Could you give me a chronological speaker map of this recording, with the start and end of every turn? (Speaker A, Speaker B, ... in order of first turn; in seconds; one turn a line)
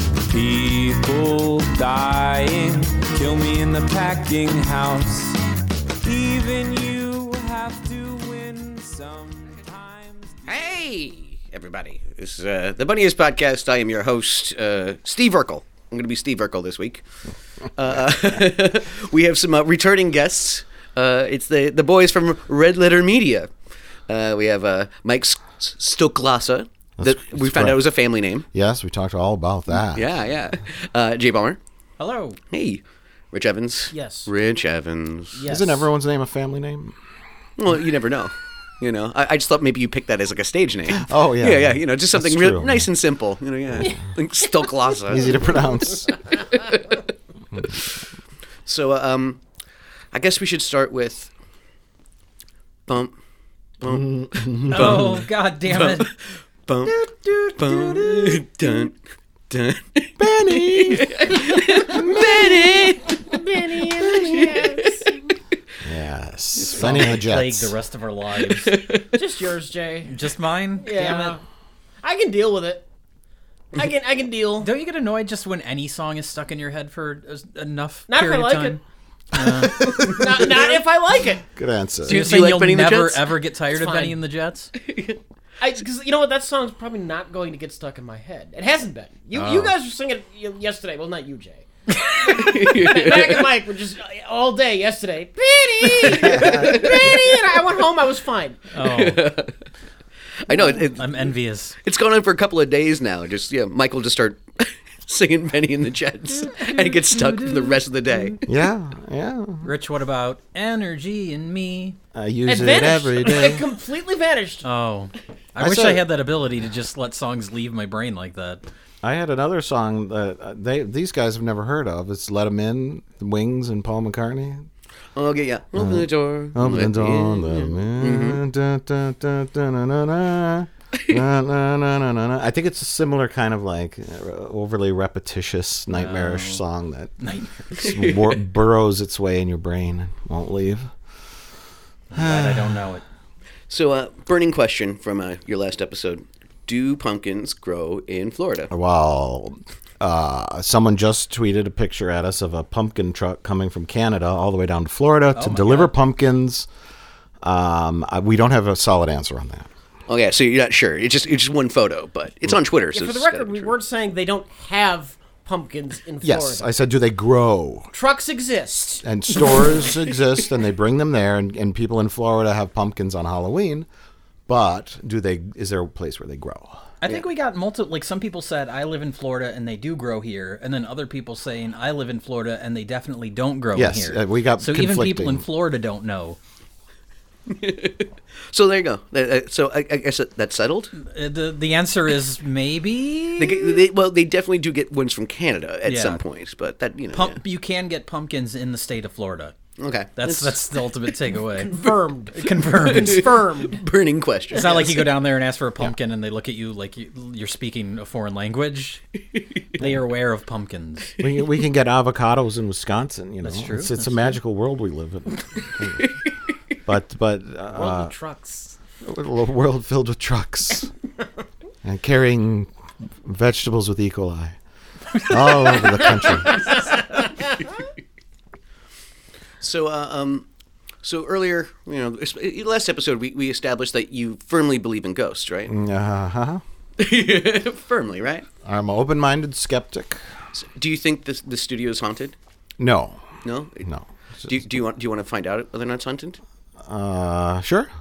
Speaker A: 0.2-5.4
Speaker A: 6.0-10.4
Speaker B: 10.4-17.0
Speaker B: 17.8-23.5
Speaker B: 24.1-28.4
Speaker C: 27.0-27.8
Speaker C: 28.5-30.2
Speaker B: 29.8-31.6
Speaker D: 32.0-32.4
Speaker B: 32.5-35.4
Speaker E: 33.9-34.3
Speaker E: 35.3-35.9
Speaker C: 35.4-37.0
Speaker B: 37.6-45.6
Speaker C: 40.9-42.9
Speaker C: 45.1-46.1
Speaker B: 48.6-49.4
Speaker B: 50.1-51.3
Speaker B: 52.9-53.1
Speaker B: 53.8-57.0
Speaker C: 53.8-55.1
Speaker D: 54.7-56.1
Speaker D: 56.9-58.5
Speaker B: 57.5-58.9
Speaker B: 59.5-63.4
Speaker C: 60.2-61.1
Speaker E: 61.9-65.2
Speaker B: 64.1-64.9
Speaker C: 65.8-67.7
Speaker B: 66.6-67.1
Speaker D: 66.7-68.8
Speaker B: 68.4-69.1
Speaker E: 69.1-71.4
Speaker D: 70.0-71.4
Speaker E: 72.0-72.8
Speaker E: 73.7-74.7
Speaker D: 74.6-78.8
Speaker E: 78.1-78.8
Speaker D: 79.3-80.2
Speaker B: 79.6-80.6
Speaker E: 80.0-81.5
Speaker C: 81.5-82.2
Speaker B: 82.0-83.4
Speaker D: 82.0-84.7
Speaker E: 83.7-84.2
Speaker B: 84.8-85.2
Speaker E: 85.6-91.7
Speaker D: 89.3-89.7
Speaker E: 92.2-98.7
Speaker B: 92.4-93.5
Speaker B: 95.8-97.4
Speaker D: 98.7-99.3
Speaker B: 98.8-99.5
Speaker B: 100.5-101.3
Speaker D: 100.5-101.8
Speaker B: 101.8-108.4
Speaker D: 106.3-107.8
Speaker C: 108.5-109.7
Speaker D: 109.6-112.0
Speaker C: 112.1-113.6
Speaker E: 112.5-114.7
Speaker D: 114.6-118.6
Speaker C: 115.6-116.0
Speaker C: 119.0-124.6
Speaker B: 125.2-128.4
Speaker C: 125.8-137.1
Speaker D: 135.9-136.6
Speaker D: 137.2-137.6
Speaker C: 137.7-140.9
Speaker B: 137.8-138.4
Speaker D: 142.1-143.0
Speaker C: 142.2-142.8
Speaker B: 143.7-148.7
Speaker C: 148.7-156.7
Speaker D: 155.3-155.9
Speaker C: 157.4-159.7
Speaker B: 160.1-163.7
Speaker E: 162.9-166.7
Speaker C: 166.2-167.9
Speaker E: 167.9-169.9
Speaker C: 169.0-173.9
Speaker C: 174.5-176.8
Speaker D: 177.0-186.4
Speaker C: 183.7-185.5
Speaker B: 187.5-190.9
Speaker D: 190.9-193.8
Speaker B: 193.4-197.4
Speaker D: 195.8-196.2
Speaker D: 197.1-199.5
Speaker B: 199.8-200.9
Speaker D: 200.2-201.8
Speaker E: 201.4-203.8
Speaker D: 202.3-203.3
Speaker B: 202.7-205.0
Speaker D: 204.5-209.0
Speaker E: 204.5-205.1
Speaker D: 209.8-211.1
Speaker C: 211.2-216.1
Speaker D: 213.4-214.3
Speaker C: 216.8-218.1
Speaker E: 217.7-218.8
Speaker C: 219.0-220.9
Speaker C: 221.8-222.7
Speaker C: 223.2-224.6
Speaker C: 225.2-226.6
Speaker E: 226.6-227.0
Speaker B: 229.6-230.4
Speaker B: 231.0-235.7
Speaker C: 235.7-236.6
Speaker B: 237.0-238.4
Speaker C: 238.6-240.2
Speaker B: 240.5-242.3
Speaker C: 242.8-243.2
Speaker B: 243.4-243.8
Speaker B: 244.4-246.4
Speaker C: 246.8-247.9